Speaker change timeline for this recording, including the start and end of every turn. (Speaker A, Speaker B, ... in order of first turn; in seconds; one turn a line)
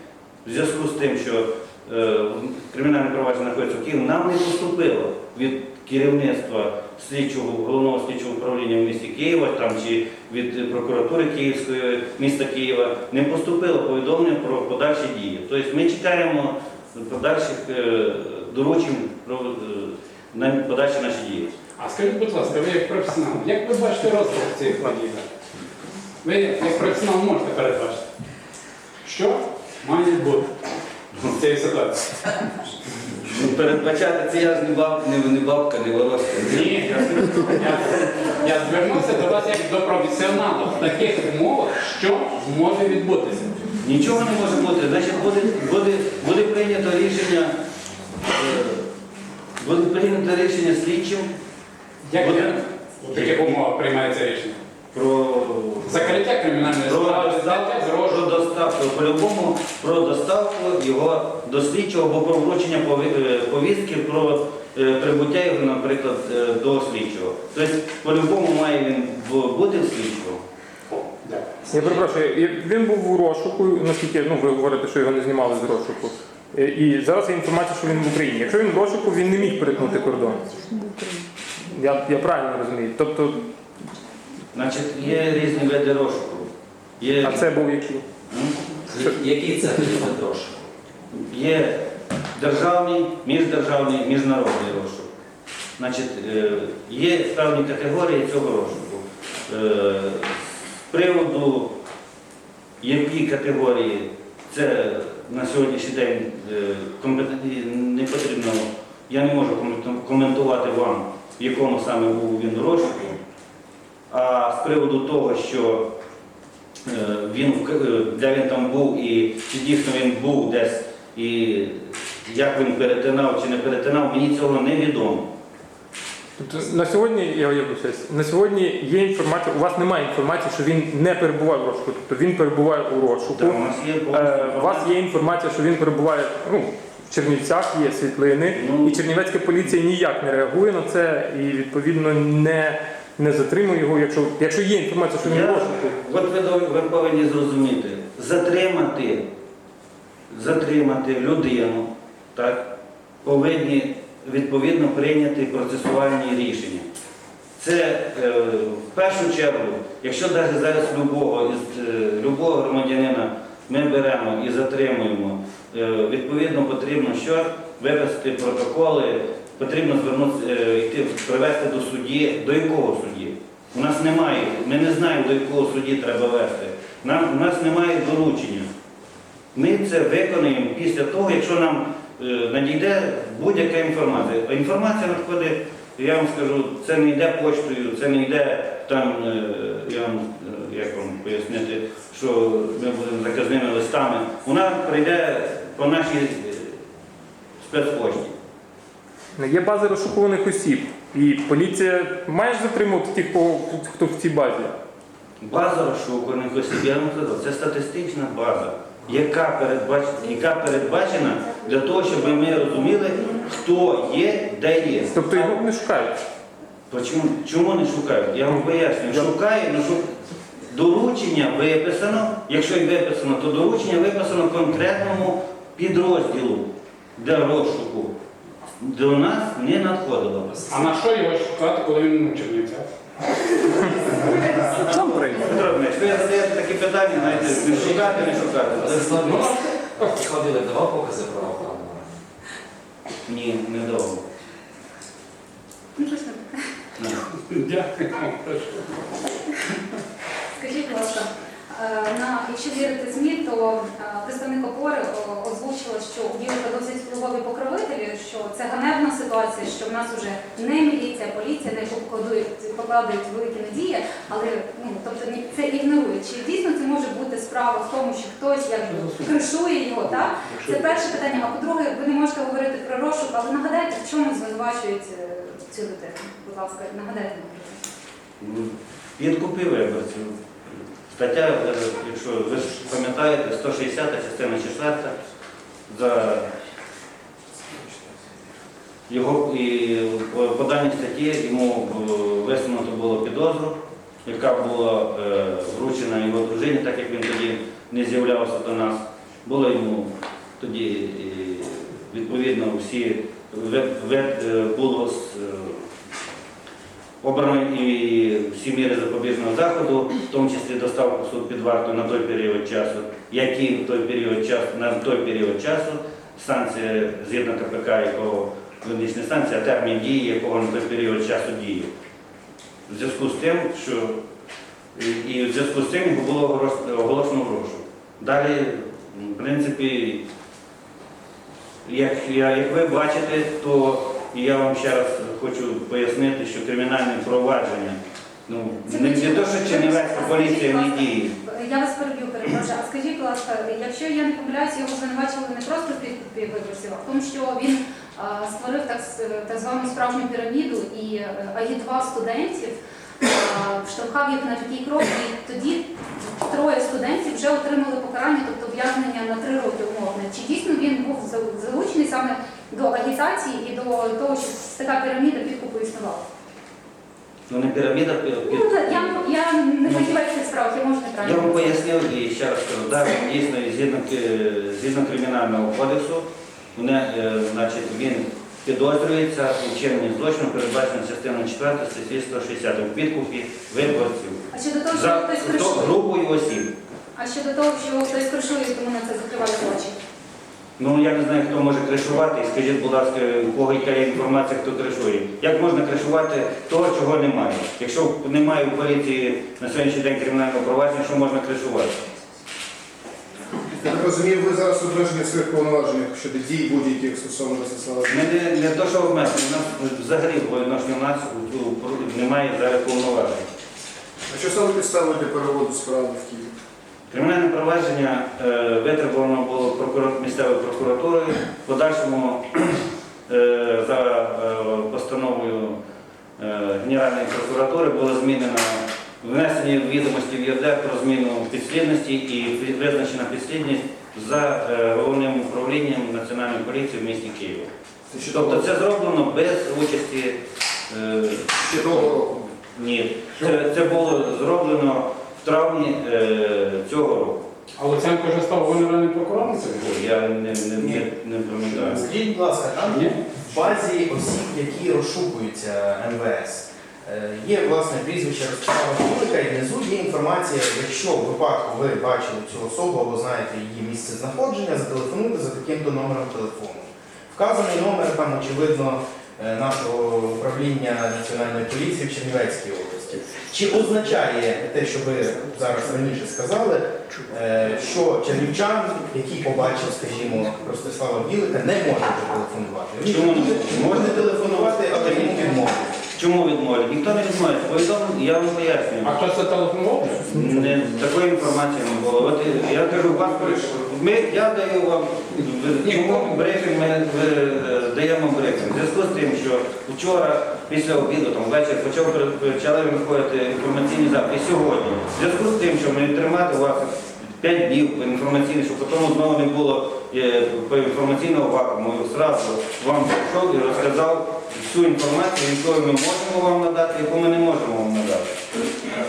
Speaker A: 0.4-21.6
Speaker B: 21.8-25.3
Speaker B: 26.2-28.0
Speaker B: 29.0-30.5
Speaker B: 31.3-32.1
Speaker A: 33.1-38.3
Speaker B: 36.5-43.6
Speaker A: 43.8-47.5
Speaker A: 48.2-48.9
Speaker A: 49.6-51.3
Speaker B: 52.1-54.6
Speaker A: 52.2-53.6
Speaker A: 54.9-70.4
Speaker B: 55.9-58.3
Speaker B: 70.9-72.0
Speaker C: 71.7-80.9
Speaker C: 81.7-83.4
Speaker A: 84.5-87.5
Speaker C: 87.2-88.0
Speaker A: 88.3-88.6
Speaker D: 88.9-90.7
Speaker A: 91.1-95.1
Speaker A: 95.8-101.8
Speaker A: 102.8-113.2
Speaker A: 114.1-115.9
Speaker A: 116.9-125.3
Speaker C: 126.4-146.0
Speaker A: 133.3-135.0
Speaker A: 138.5-139.1
Speaker A: 145.2-149.3
Speaker A: 150.3-152.7
Speaker A: 153.2-156.9
Speaker A: 157.6-178.7
Speaker A: 179.5-196.8
Speaker A: 197.6-198.3
Speaker C: 199.4-204.8
Speaker A: 205.4-215.6
Speaker C: 215.1-216.2
Speaker A: 216.9-220.1
Speaker A: 220.7-228.1
Speaker A: 228.8-230.6
Speaker B: 230.7-232.9
Speaker A: 234.2-239.2
Speaker D: 237.3-238.0
Speaker D: 238.7-242.2
Speaker B: 239.1-240.1
Speaker A: 243.2-244.2
Speaker E: 245.9-246.7
Speaker B: 247.4-249.0
Speaker E: 250.6-277.8
Speaker B: 270.5-270.9
Speaker A: 278.4-285.1
Speaker A: 285.9-286.5
Speaker A: 289.1-305.9
Speaker A: 307.2-321.9
Speaker A: 322.9-324.2
Speaker A: 324.9-330.2
Speaker A: 331.8-341.3
Speaker E: 338.8-366.3
Speaker A: 367.5-369.2
Speaker E: 368.5-371.7
Speaker A: 369.8-370.1
Speaker A: 371.2-386.7
Speaker E: 384.5-385.9
Speaker E: 387.1-390.0
Speaker A: 390.8-402.0
Speaker F: 403.7-408.2
Speaker A: 408.1-413.4
Speaker F: 414.3-416.5
Speaker A: 417.1-425.8
Speaker A: 426.4-437.7
Speaker F: 438.1-438.7
Speaker A: 438.2-440.4
Speaker A: 440.9-447.4
Speaker F: 441.6-442.5
Speaker B: 447.8-449.9
Speaker A: 449.7-452.1
Speaker G: 451.8-485.9
Speaker B: 452.8-453.2
Speaker F: 453.5-453.8
Speaker A: 483.0-489.2
Speaker B: 489.0-490.3
Speaker A: 490.2-518.3
Speaker C: 490.4-490.9
Speaker B: 495.8-496.6